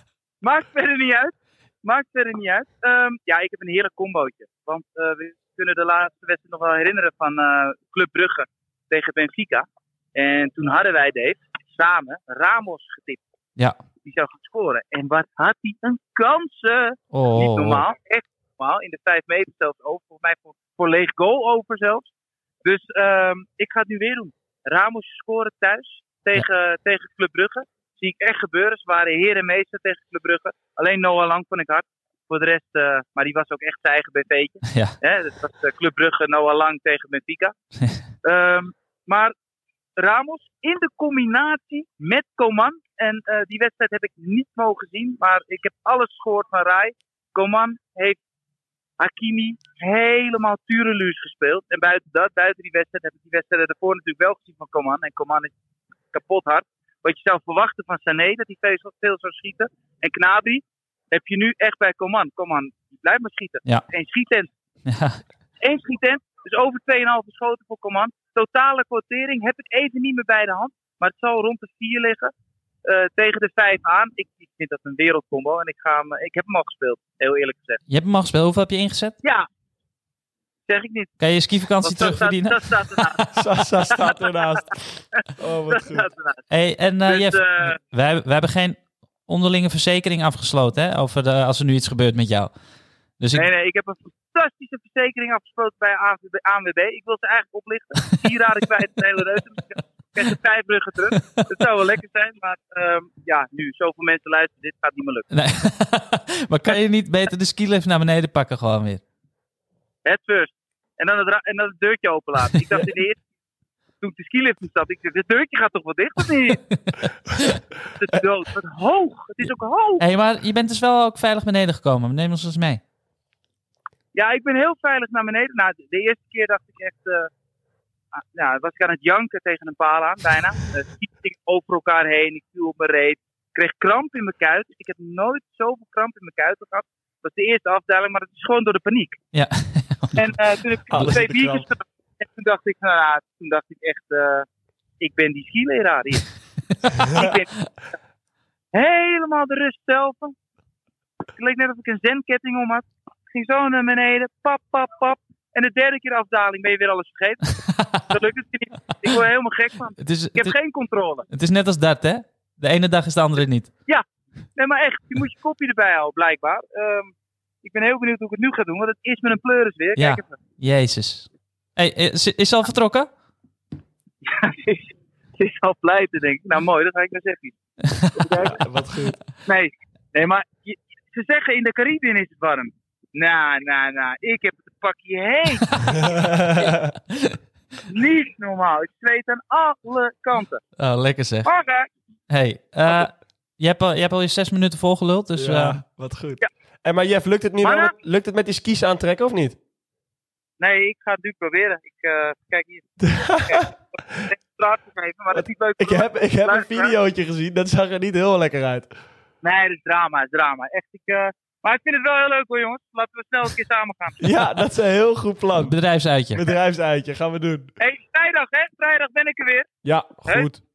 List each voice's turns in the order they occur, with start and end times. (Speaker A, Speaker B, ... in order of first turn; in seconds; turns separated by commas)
Speaker A: 0.4-13.2, Speaker A: 14.0-22.1, Speaker B: 17.1-17.9, Speaker A: 22.6-37.5, Speaker B: 34.7-35.0, Speaker A: 38.2-39.3, Speaker A: 40.0-48.2, Speaker A: 49.0-55.5, Speaker A: 56.1-64.5, Speaker B: 64.9-65.2, Speaker A: 65.6-72.3, Speaker A: 72.8-77.8, Speaker B: 77.9-79.2, Speaker A: 80.7-81.2, Speaker B: 81.2-83.4, Speaker A: 81.8-83.4, Speaker C: 83.4-86.1, Speaker A: 83.9-84.2, Speaker A: 85.2-86.4, Speaker B: 86.5-92.5, Speaker A: 87.1-87.8, Speaker B: 93.2-93.5, Speaker A: 93.3-105.3, Speaker B: 101.2-101.5, Speaker B: 105.3-109.0, Speaker A: 110.0-113.2, Speaker A: 114.0-116.7, Speaker B: 116.7-117.6, Speaker A: 117.9-120.0, Speaker B: 120.0-122.8, Speaker A: 124.1-127.3, Speaker A: 128.2-139.2, Speaker B: 139.3-140.4, Speaker A: 140.2-144.5, Speaker C: 140.9-141.7, Speaker A: 145.0-146.3, Speaker A: 147.0-147.7, Speaker A: 148.7-150.3, Speaker A: 151.3-161.3, Speaker B: 157.7-158.1, Speaker B: 160.0-160.6, Speaker B: 161.3-163.7, Speaker A: 164.6-167.1, Speaker A: 167.6-170.3, Speaker B: 170.0-173.1, Speaker A: 174.2-177.6, Speaker A: 178.1-178.6, Speaker C: 178.4-179.2, Speaker A: 179.4-186.4, Speaker C: 186.2-186.8, Speaker B: 187.1-187.4, Speaker A: 187.9-190.6, Speaker B: 190.8-191.5, Speaker A: 191.4-191.9, Speaker B: 192.3-195.8, Speaker C: 195.4-199.6, Speaker A: 197.6-197.9, Speaker A: 200.6-206.9, Speaker C: 203.0-204.3, Speaker C: 205.3-208.9, Speaker A: 209.4-214.3, Speaker C: 214.2-215.8, Speaker B: 215.6-216.4, Speaker C: 216.3-217.7, Speaker A: 217.8-219.7, Speaker C: 219.8-220.6